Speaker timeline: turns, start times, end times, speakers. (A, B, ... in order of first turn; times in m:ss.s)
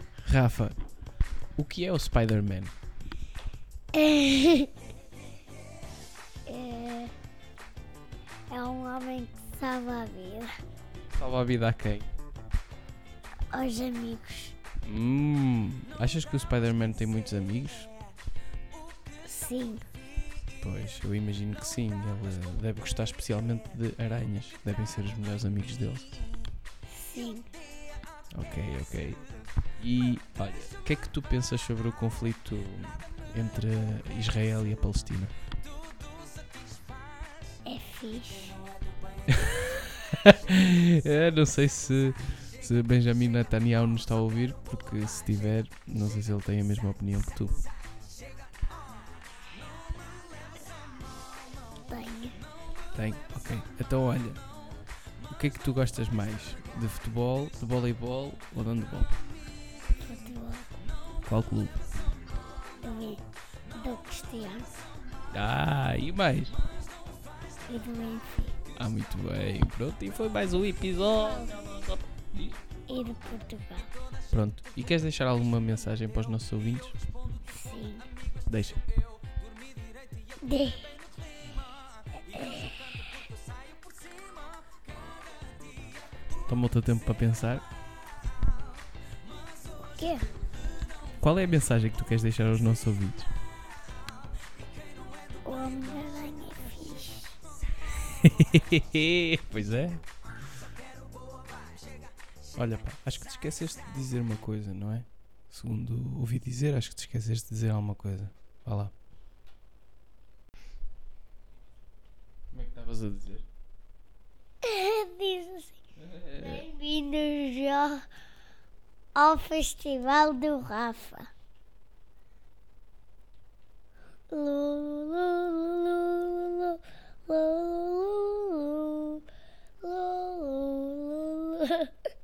0:00.2-0:00.8 A
0:01.6-0:02.7 A
0:03.9-0:04.7 B
0:06.5-0:07.1 B
0:08.5-0:10.5 B
0:11.1-0:12.1 A
0:13.5-0:14.6 B
0:14.8-0:17.9 A
0:19.3-0:19.9 B
0:20.6-0:26.2 A
0:26.9-0:27.5 B
0:28.4-0:29.2 A
0:29.8-0:35.3 A
0:37.6-0:38.6 B
0:39.3-0:47.6 A
0:51.9-0:52.4 B
0:53.0-0:54.4 A
0:55.3-0:59.2 A
1:00.0-1:00.9 B
1:01.3-1:01.8 A
1:02.8-1:03.2 B
1:03.8-1:04.8 B
1:05.3-1:06.6 A
1:07.6-1:08.6 B
1:08.8-1:12.6 A
1:11.1-1:11.6 B
1:12.9-1:13.9 B
1:14.3-1:17.0 A
1:17.5-1:18.1 B
1:18.5-1:18.8 A
1:20.4-1:21.0 B
1:22.3-1:23.1 B
1:26.5-1:27.6 A
1:29.8-1:30.3 B
1:31.2-1:33.3 A
1:35.4-1:37.4 B
1:38.1-1:40.0 A
1:42.6-1:48.9 A
1:52.5-1:53.4 A
1:54.6-1:55.8 B
1:56.0-1:56.6 A
1:56.4-1:58.1 B
1:59.2-2:01.3 B
2:04.3-2:09.2 B
2:09.8-2:11.9 B